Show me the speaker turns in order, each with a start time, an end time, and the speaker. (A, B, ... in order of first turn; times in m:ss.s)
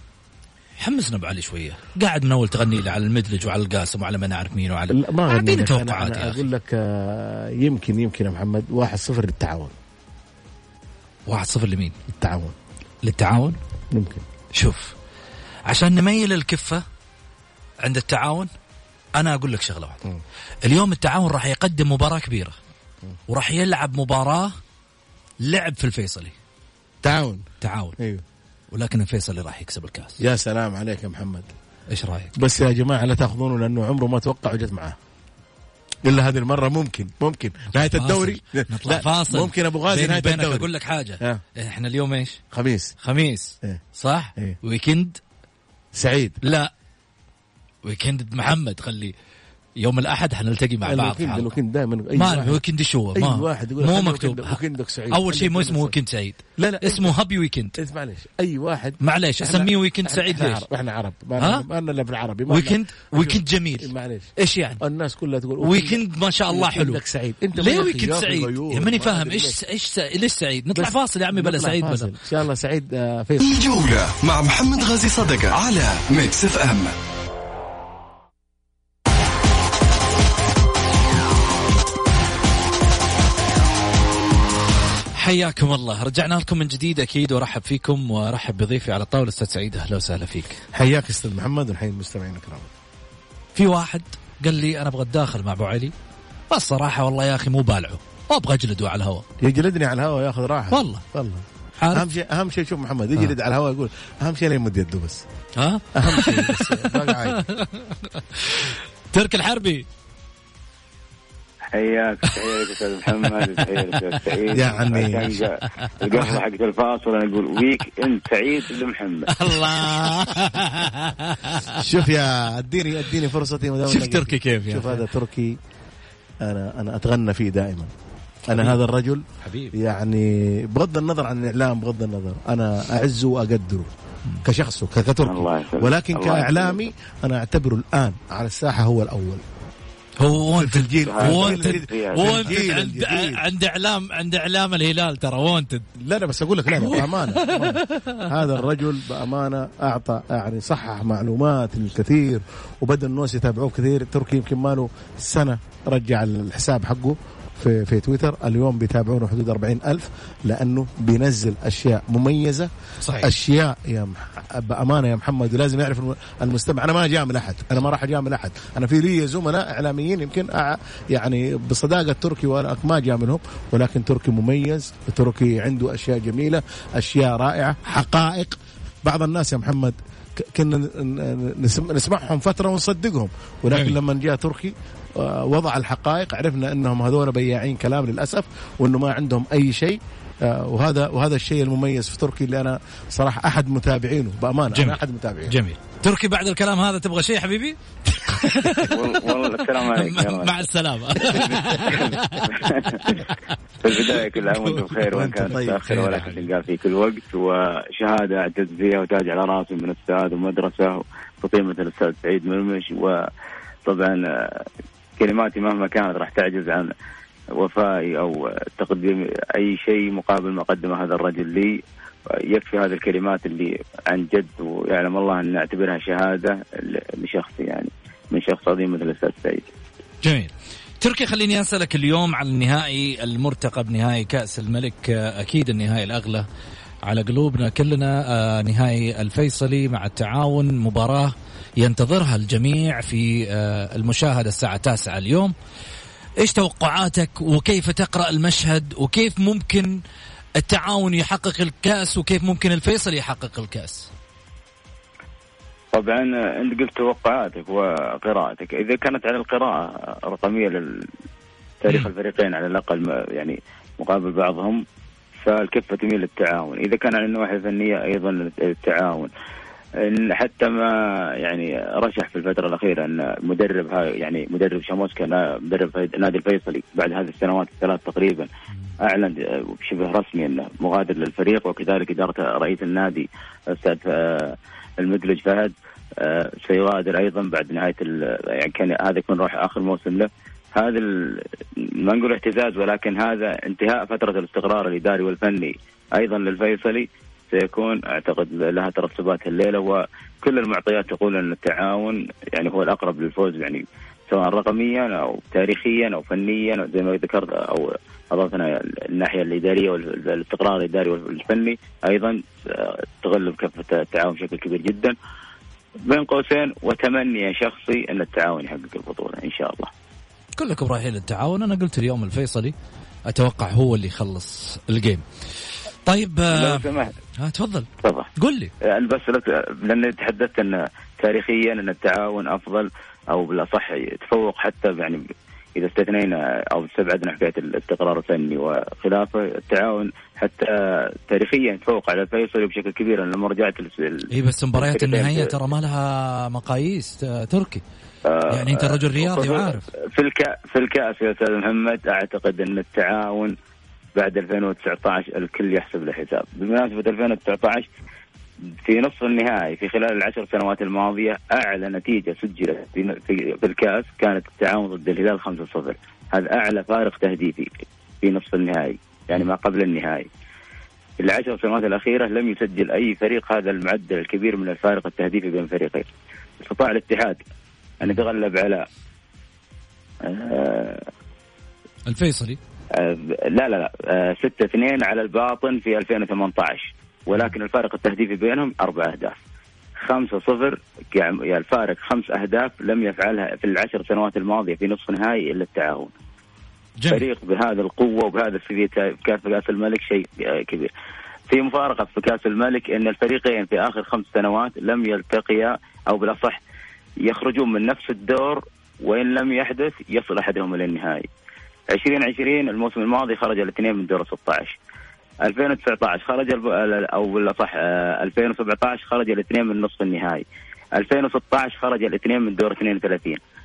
0:00.8-0:06.4 A
0:04.9-0:09.7 B
0:11.3-0:11.9 A
0:12.1-0:12.5 B
0:13.0-0:13.6 A
0:13.9-0:14.2 B
0:14.5-0:14.9 A
0:15.7-0:16.8 A
0:17.8-0:18.5 A
0:19.2-0:20.0 A
0:20.6-0:22.6 A
0:23.3-0:24.5 A
0:25.4-0:26.3 A
0:27.0-0:27.4 B
0:27.6-0:28.0 A
0:28.0-0:28.2 B
0:28.7-0:30.2 A
0:30.2-0:31.5 B
0:31.9-0:32.4 A
0:32.4-0:35.0 B
0:36.0-0:41.4 B
0:37.7-0:42.4 A
0:42.5-0:42.9 B
0:43.0-0:45.2 A
0:46.0-0:46.4 B
0:46.4-0:46.7 A
0:47.8-0:49.1 A
0:49.8-0:51.5 A
0:50.8-0:52.6 B
0:52.2-0:54.6 A
0:53.1-0:55.9 B
0:55.1-0:57.8 A
0:56.6-0:57.2 B
0:57.8-1:09.6 B
0:59.0-1:00.6 A
1:01.4-1:01.6 A
1:02.5-1:04.8 A
1:05.6-1:07.0 A
1:07.6-1:12.1 A
1:10.7-1:13.5 B
1:13.4-1:17.0 C
1:25.2-1:30.6 A
1:30.7-1:32.7 B
1:33.6-1:35.9 A
1:36.5-1:39.2 A
1:39.4-1:45.2 B
1:40.7-1:41.0 A
1:41.8-1:42.0 A
1:45.6-1:49.8 A
1:45.9-1:47.4 B
1:51.7-1:59.3 D
1:53.4-1:54.2 A
1:54.5-1:55.3 B
1:55.7-1:56.4 A
1:59.3-2:02.0 A
2:00.2-2:00.5 B
2:01.7-2:05.6 B
2:03.9-2:05.0 A
2:06.4-2:07.9 B
2:08.5-2:13.9 B
2:08.5-2:08.8 A
2:09.4-2:09.7 A
2:14.4-2:19.4 B
2:15.3-2:16.8 D
2:20.2-2:25.8 A
2:20.5-2:23.4 B
2:21.1-2:22.4 D
2:26.0-3:15.5 B
2:26.7-2:28.2 A
2:43.0-2:43.3 A
3:03.7-3:04.0 A
3:14.7-3:19.0 A
3:18.8-3:20.7 D
3:19.8-3:23.3 A
3:21.2-3:23.2 D
3:23.8-3:33.3 D
3:24.1-3:26.3 A
3:25.1-3:26.3 B
3:33.8-3:34.7 D
3:35.2-3:36.9 D
3:37.5-3:41.8 D
3:42.3-3:49.7 D
3:50.2-3:56.4 A
3:57.0-4:05.5 A
4:06.4-4:10.0 A
4:10.6-4:14.1 A
4:15.9-4:21.1 D
4:21.8-4:24.8 D
4:25.4-4:29.3 D
4:30.0-4:38.5 D
4:39.0-5:15.1 D
5:16.0-5:19.9 D
5:20.5-5:22.7 A
5:23.3-5:25.2 A
5:26.0-5:26.8 A
5:26.5-5:27.1 D
5:27.4-5:28.7 A
5:28.0-5:28.3 D
5:28.8-5:35.2 D
5:35.8-5:45.5 D
5:44.3-5:47.8 A
5:48.2-5:53.5 D
5:48.5-5:49.9 A
5:54.1-5:57.9 D
5:58.8-6:10.3 D
6:11.2-6:16.1 D
6:16.6-6:17.4 D
6:18.0-6:18.9 D
6:20.2-6:21.1 D
6:22.1-6:22.6 A
6:22.9-6:29.4 D
6:30.0-6:36.1 D
6:37.0-6:37.2 A
6:37.1-6:40.9 D
6:41.5-6:46.6 D
6:47.2-6:51.3 D
6:51.9-6:54.8 D
6:55.4-7:03.4 D